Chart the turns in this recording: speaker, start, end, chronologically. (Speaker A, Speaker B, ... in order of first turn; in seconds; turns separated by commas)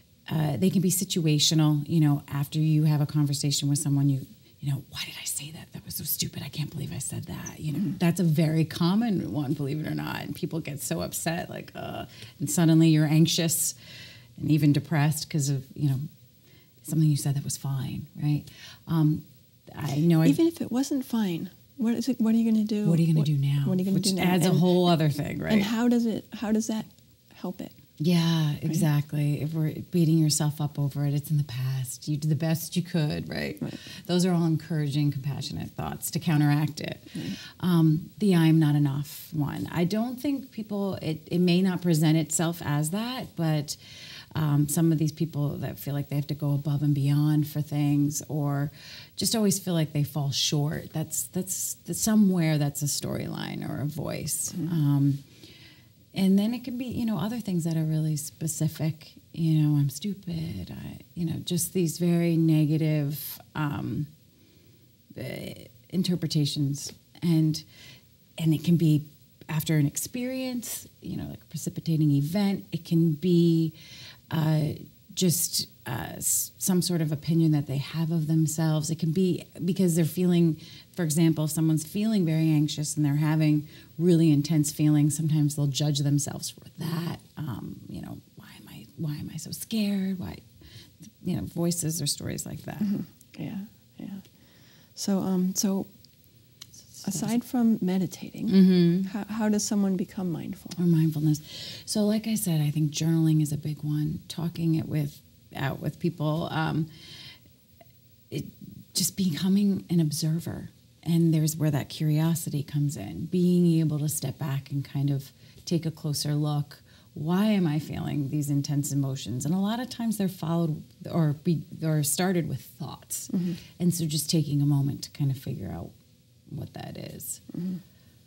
Speaker A: 0.3-13.8, Speaker A: 14.4-16.1, Speaker A: 16.8-20.4, Speaker B: 20.2-24.9, Speaker A: 22.9-25.7, Speaker B: 25.5-27.8, Speaker A: 28.0-43.8, Speaker A: 44.3-55.2, Speaker A: 56.1-64.1, Speaker A: 65.1-67.7, Speaker A: 68.4-73.7, Speaker A: 74.3-90.4, Speaker A: 91.2-92.9, Speaker B: 92.8-94.3, Speaker B: 95.0-95.9, Speaker B: 97.0-100.8, Speaker A: 98.5-99.1, Speaker A: 100.8-106.9, Speaker A: 108.3-125.9, Speaker B: 123.3-123.6, Speaker A: 126.5-127.4, Speaker B: 127.5-127.8